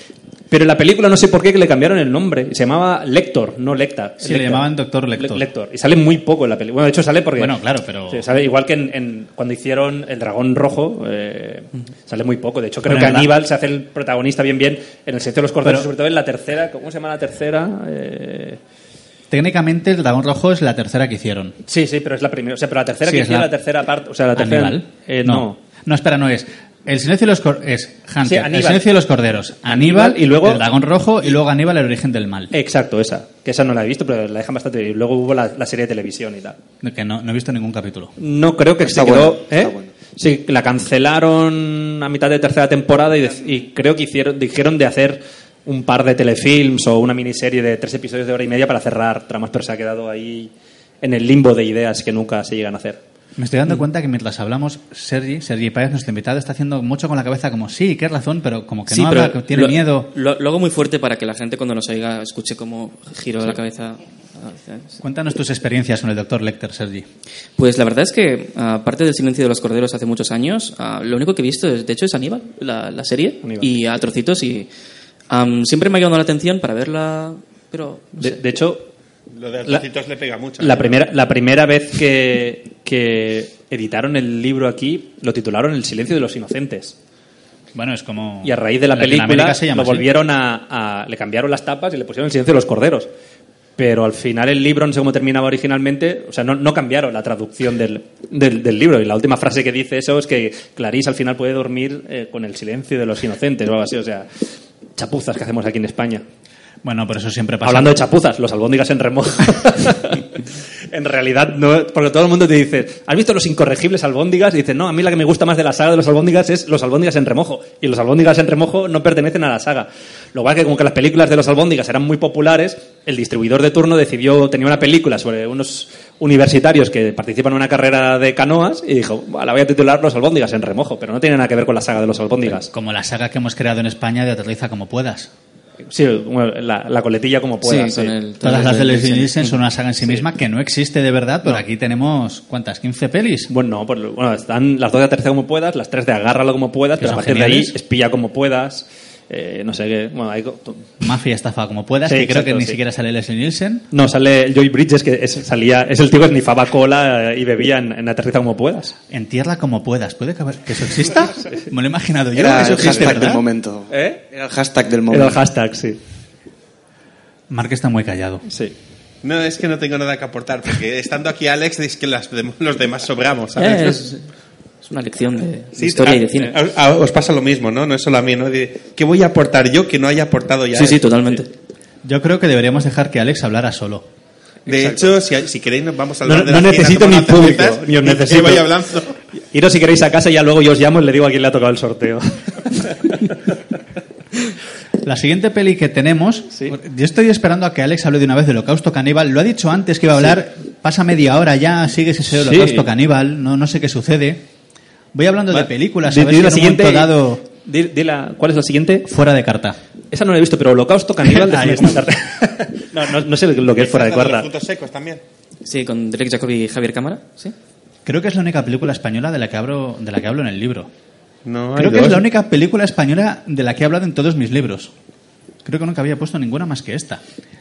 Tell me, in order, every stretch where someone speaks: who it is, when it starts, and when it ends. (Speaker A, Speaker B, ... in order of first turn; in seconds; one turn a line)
Speaker A: 0.5-7.5
Speaker B: 4.2-5.5
Speaker B: 7.3-8.2
Speaker A: 8.1-18.6
Speaker B: 12.8-13.3
Speaker B: 15.6-15.9
Speaker B: 19.3-21.6
Speaker A: 21.7-25.6
Speaker B: 23.0-23.5
Speaker B: 24.3-32.5
Speaker A: 28.2-28.9
Speaker A: 29.7-30.6
Speaker A: 32.5-36.6
Speaker B: 36.8-38.1
Speaker A: 38.2-50.5
Speaker C: 38.8-39.9
Speaker A: 51.0-53.0
Speaker B: 53.4-60.1
Speaker D: 58.9-65.0
Speaker B: 65.0-67.0
Speaker D: 67.6-74.7
Speaker A: 73.4-73.8
Speaker D: 75.3-78.3
Speaker A: 78.2-78.9
Speaker E: 79.3-80.9
Speaker A: 80.6-86.9
Speaker B: 87.7-90.1
Speaker A: 88.4-93.1
Speaker A: 93.8-104.3
Speaker A: 105.0-106.2
Speaker B: 106.8-108.0
Speaker A: 107.6-110.4
Speaker A: 110.9-132.7
Speaker B: 132.6-135.3
Speaker A: 135.9-138.1
Speaker D: 137.6-139.6
Speaker B: 138.4-143.5
Speaker A: 140.0-140.3
Speaker A: 143.5-150.9
Speaker B: 147.0-147.7
Speaker B: 151.0-153.9
Speaker A: 152.1-152.8
Speaker A: 153.9-158.9
Speaker B: 159.1-163.4
Speaker C: 162.3-165.4
Speaker A: 162.6-163.2
Speaker A: 163.9-164.2
Speaker A: 165.1-166.0
Speaker B: 167.5-168.4
Speaker A: 168.5-168.7
Speaker E: 169.2-174.0
Speaker D: 173.6-174.2
Speaker D: 174.8-176.6
Speaker E: 175.8-181.4
Speaker D: 180.7-181.5
Speaker B: 182.0-184.1
Speaker A: 184.7-185.2
Speaker E: 184.7-189.1
Speaker A: 186.2-188.7
Speaker A: 189.5-193.3
Speaker B: 195.0-204.4
Speaker A: 202.4-202.9
Speaker B: 205.1-207.4
Speaker A: 205.5-209.1
Speaker B: 209.0-209.8
Speaker A: 210.1-214.5
Speaker B: 211.3-212.1
Speaker E: 213.8-215.2
Speaker D: 215.6-217.5
Speaker B: 218.0-220.9
Speaker E: 221.4-222.2
Speaker B: 221.8-224.9
Speaker B: 225.6-227.2